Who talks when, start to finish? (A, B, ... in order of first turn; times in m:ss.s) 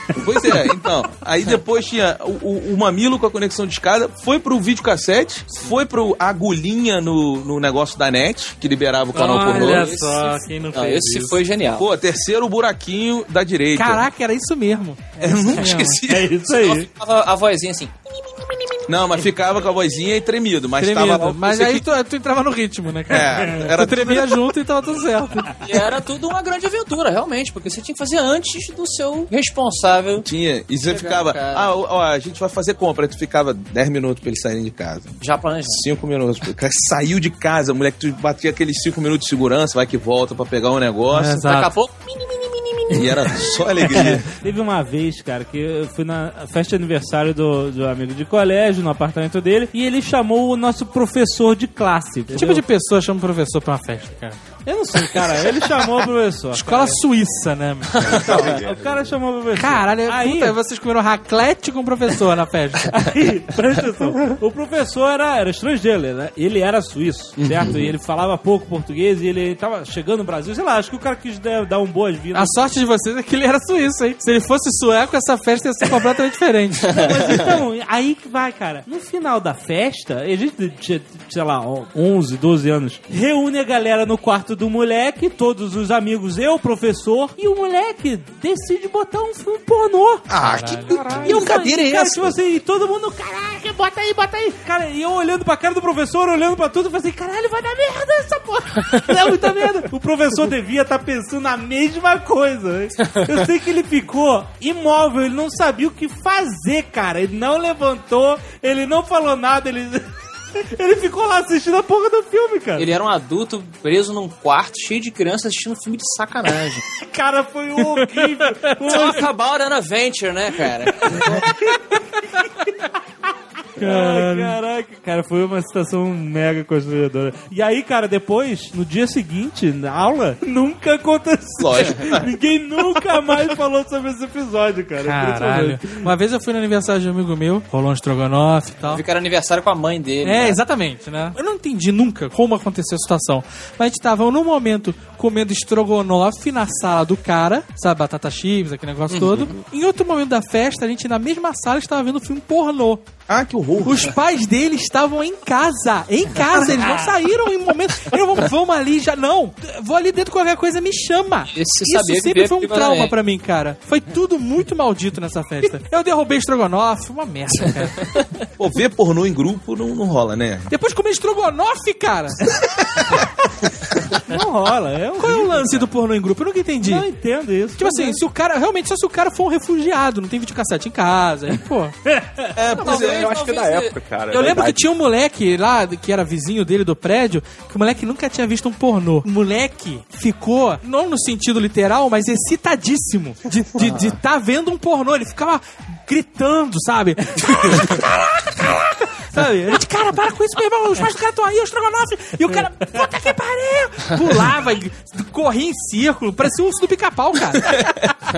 0:00.1-0:10.0 A
0:09.1-0:11.4 B
0:09.3-0:11.8 C
0:11.8-0:14.0 A
0:13.7-0:16.0 B
0:15.2-0:16.3 A
0:16.0-0:16.9 D
0:16.5-0:19.2 C
0:18.9-0:21.8 A
0:20.8-0:25.6 B
0:23.1-0:24.4 A
0:23.2-0:23.7 D
0:25.6-0:30.2 C
0:30.2-0:41.4 A
0:30.8-0:31.7 C
0:35.2-0:35.8 C
0:41.1-0:41.7 B
0:41.3-0:44.1 C
0:42.9-0:44.3 A
0:44.4-0:52.6 D
0:52.3-0:54.4 B
0:54.6-0:57.0 D
0:56.5-0:58.0 B
0:58.0-0:59.2 E
0:58.2-1:00.6 D
0:59.6-1:03.0 B
1:02.9-1:12.6 D
1:12.3-1:16.9 B
1:16.9-1:30.2 D
1:30.3-1:32.4 A
1:30.4-1:31.0 B
1:30.9-1:31.3 E
1:31.2-1:50.1 D
1:50.6-1:52.9 D
1:52.8-1:56.8 C
1:57.0-1:59.3 D
1:58.0-1:58.5 B
1:58.8-2:01.5 C
2:03.8-2:16.1 D
2:03.8-2:04.6 B
2:11.6-2:12.3 A
2:15.0-2:19.0 B
2:18.9-2:20.6 C
2:20.2-2:33.1 B
2:29.1-2:29.5 C
2:33.3-2:34.1 A
2:33.8-2:48.0 B
2:41.5-2:43.1 C
2:48.6-2:50.7 A
2:50.7-2:52.4 B
2:52.8-2:53.2 A
2:54.1-2:55.9 D
2:55.2-2:57.0 B
2:56.8-2:58.2 D
2:57.8-3:01.9 B
3:02.1-3:02.4 D
3:02.5-3:03.4 A
3:02.8-3:03.9 C
3:02.8-3:04.8 E
3:04.3-3:27.9 B
3:13.8-3:14.1 C